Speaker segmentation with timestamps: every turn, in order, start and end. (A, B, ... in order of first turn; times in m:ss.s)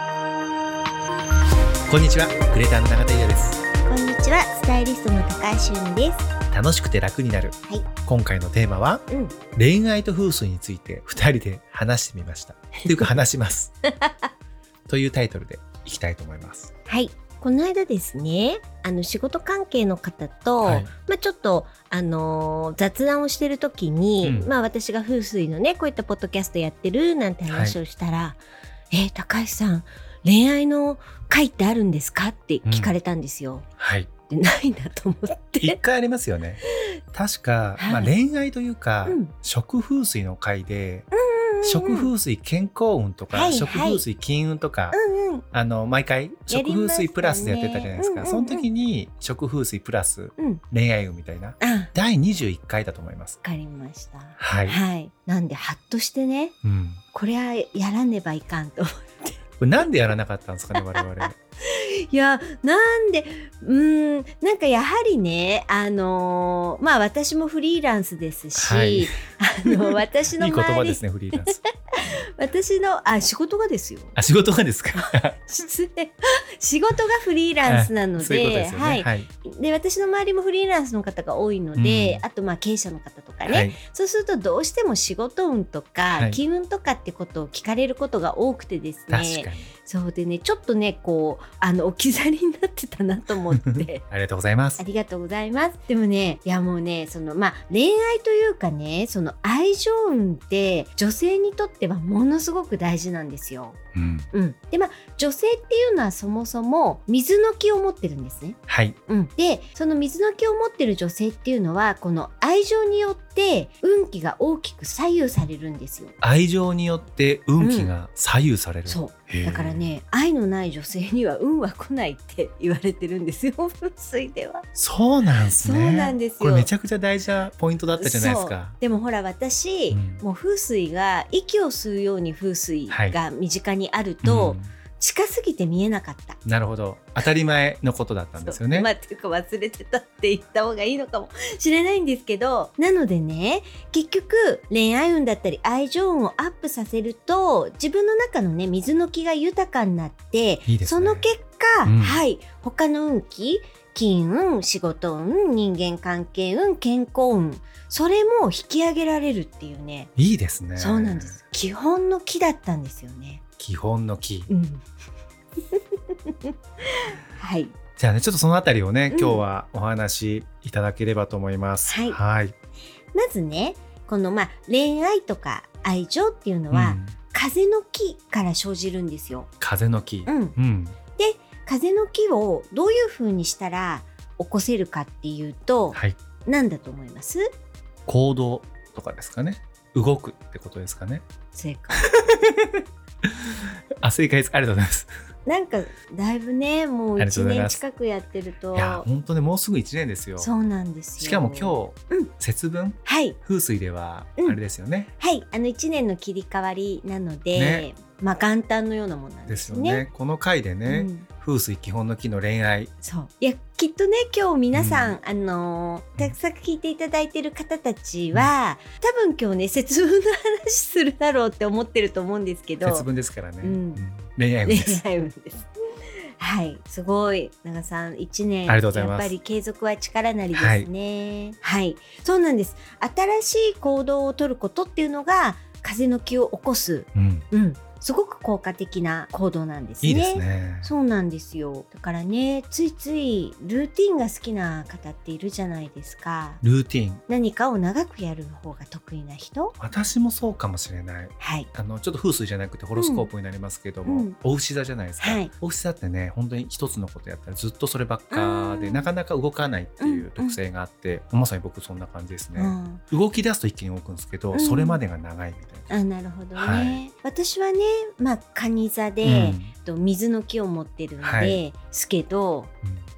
0:01.9-0:03.6 A
0:03.8-0:06.3 B
0:06.5-0:13.7 A
0:09.1-0:09.4 B
0:14.0-0:14.3 B
0:14.9-0:16.7 A
0:16.9-0:28.4 B
0:20.6-0:20.9 A
0:24.2-0:24.5 A
0:27.5-0:27.8 A
0:28.9-0:33.7 B
0:32.6-0:32.9 A
0:33.8-0:34.1 A
0:34.3-0:35.8 B
0:35.6-0:36.6 A
0:37.1-0:41.1 A
0:37.8-0:38.1 B
0:39.0-0:39.3 B
0:41.1-0:42.1 B
0:41.6-0:45.0 A
0:43.3-0:44.0 B
0:44.9-0:45.4 B
0:45.5-0:53.4 A
0:46.5-0:48.7 B
0:50.4-0:50.6 B
0:51.6-0:51.9 B
0:53.4-0:56.5 B
0:54.4-0:54.8 A
0:56.6-0:57.0 A
0:57.1-0:59.4 B
0:59.6-1:01.4 A
1:00.7-1:01.0 B
1:01.6-1:14.2 B
1:08.6-1:09.2 A
1:09.7-1:11.6 A
1:14.2-1:15.4 A
1:15.1-1:34.0 B
1:17.6-1:19.3 A
1:21.8-1:22.2 A
1:23.5-1:23.8 A
1:26.1-1:26.4 A
1:29.1-1:29.7 A
1:33.7-1:34.8 A
1:34.8-1:43.8 B
1:44.0-1:44.3 A
1:44.3-1:56.2 B
1:48.7-1:49.0 A
1:56.2-1:59.9 A
1:57.6-1:57.9 B
1:58.9-2:04.7 B
2:04.8-2:08.8 A
2:05.5-2:06.7 B
2:08.0-2:16.4 B
2:09.9-2:10.2 A
2:12.9-2:13.2 A
2:14.2-2:14.7 A
2:16.4-2:18.9 A
2:18.4-2:40.1 B
2:30.7-2:31.3 A
2:31.8-2:32.2 A
2:40.2-2:41.4 A
2:40.8-2:43.4 B
2:43.6-2:44.5 A
2:44.5-2:44.8 B
2:45.7-2:47.7 B
2:48.0-2:52.5 A
2:49.1-2:49.4 B
2:51.9-2:52.2 B
2:53.1-2:59.5 B
2:56.7-2:57.2 A
2:59.6-3:01.0 A
3:00.3-3:00.6 B
3:01.2-3:07.4 B
3:08.1-3:11.2 A
3:11.5-3:12.0 B
3:12.0-3:15.1 A
3:15.5-3:19.1 B
3:17.2-3:17.8 A
3:18.7-3:20.5 A
3:20.4-3:22.3 B
3:21.2-3:25.1 A
3:23.0-3:23.4 B
3:25.2-3:30.0 B
3:27.6-3:27.9 A
3:29.5-3:32.9 A
3:30.9-3:31.3 B
3:33.0-3:43.1 B
3:34.7-3:35.2 A
3:42.8-3:45.0 A
3:43.6-3:44.1 B
3:44.6-3:45.7 B
3:46.4-4:06.6 B
3:48.7-3:49.3 A
3:50.5-3:50.9 A
3:57.2-3:57.5 A
4:00.0-4:00.9 A
4:06.6-4:07.2 A
4:07.3-4:09.8 B
4:09.8-4:25.9 A
4:11.4-4:11.7 B
4:13.0-4:13.3 B
4:14.0-4:14.4 B
4:15.2-4:15.5 B
4:18.3-4:19.1 B
4:20.0-4:20.6 B
4:22.6-4:23.0 B
4:24.5-4:25.0 B
4:25.9-4:32.7 B
4:26.6-4:27.0 A
4:29.2-4:29.7 A
4:31.2-4:31.6 A